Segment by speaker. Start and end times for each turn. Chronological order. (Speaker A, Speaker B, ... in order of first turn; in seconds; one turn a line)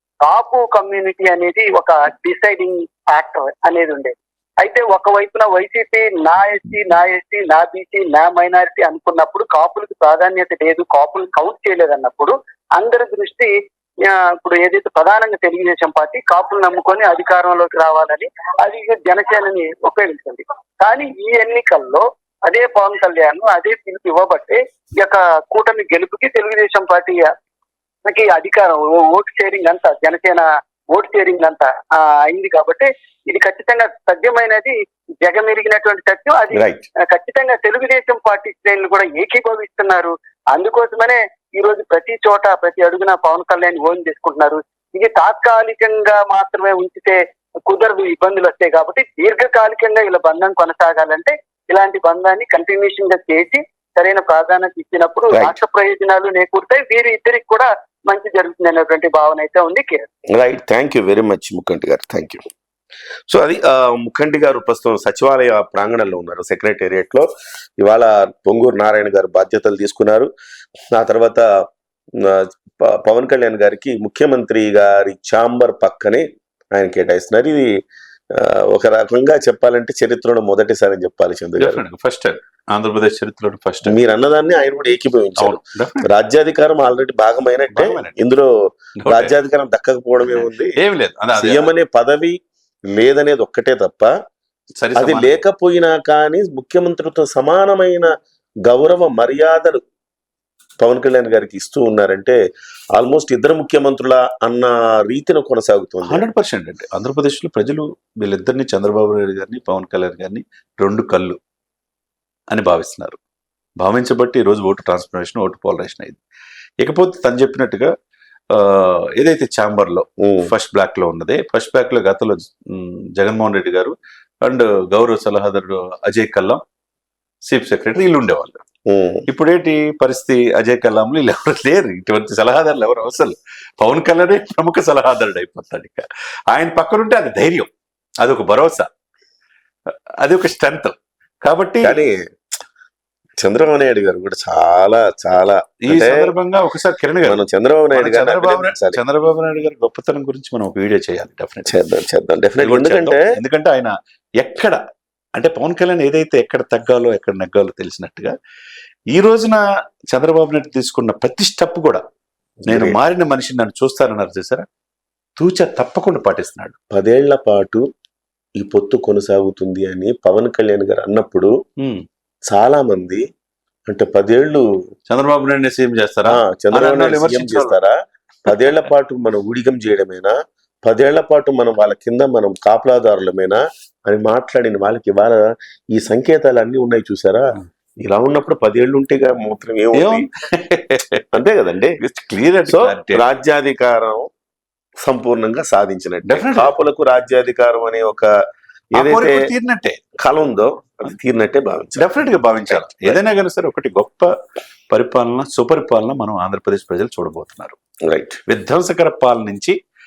Speaker A: 0.2-13.5
Speaker A: 14.0-27.3
Speaker A: 28.0-60.1
Speaker B: 36.5-36.8
Speaker B: 55.3-55.6
Speaker B: 60.3-62.4
Speaker B: 63.3-67.3
Speaker B: 67.8-70.3
Speaker B: 70.9-71.4
Speaker B: 72.2-77.7
Speaker B: 78.3-81.8
Speaker C: 81.6-84.0
Speaker B: 83.8-90.8
Speaker C: 85.4-86.1
Speaker C: 87.7-88.2
Speaker C: 89.0-89.3
Speaker C: 90.2-91.7
Speaker B: 91.3-92.4
Speaker B: 92.9-94.1
Speaker C: 94.8-95.4
Speaker B: 94.9-98.1
Speaker B: 98.7-99.8
Speaker B: 100.8-102.4
Speaker B: 102.9-106.2
Speaker C: 106.0-111.4
Speaker C: 112.5-113.2
Speaker C: 113.8-116.2
Speaker C: 116.8-117.9
Speaker C: 118.5-123.9
Speaker B: 120.2-120.5
Speaker C: 124.5-126.6
Speaker C: 127.5-128.6
Speaker B: 128.8-129.2
Speaker C: 129.3-137.7
Speaker C: 138.2-138.9
Speaker C: 140.2-141.9
Speaker B: 141.8-142.2
Speaker B: 143.4-146.3
Speaker C: 145.8-151.7
Speaker B: 147.2-149.0
Speaker B: 151.7-153.3
Speaker C: 152.6-154.8
Speaker C: 155.3-158.3
Speaker C: 159.1-162.0
Speaker B: 162.6-163.0
Speaker C: 162.7-164.7
Speaker C: 165.4-166.7
Speaker B: 166.9-167.8
Speaker B: 168.6-171.5
Speaker C: 171.8-172.0
Speaker B: 172.5-173.2
Speaker B: 173.9-174.6
Speaker C: 175.1-177.8
Speaker B: 176.2-180.3
Speaker B: 180.8-187.5
Speaker B: 188.0-190.3
Speaker C: 189.9-191.2
Speaker B: 191.3-192.0
Speaker C: 192.0-193.2
Speaker B: 192.7-194.2
Speaker B: 195.0-198.3
Speaker C: 196.3-196.7
Speaker B: 198.9-199.5
Speaker C: 198.9-200.0
Speaker B: 200.2-202.1
Speaker C: 202.0-204.3
Speaker B: 202.7-203.2
Speaker C: 204.9-207.8
Speaker B: 208.0-208.4
Speaker C: 208.5-209.8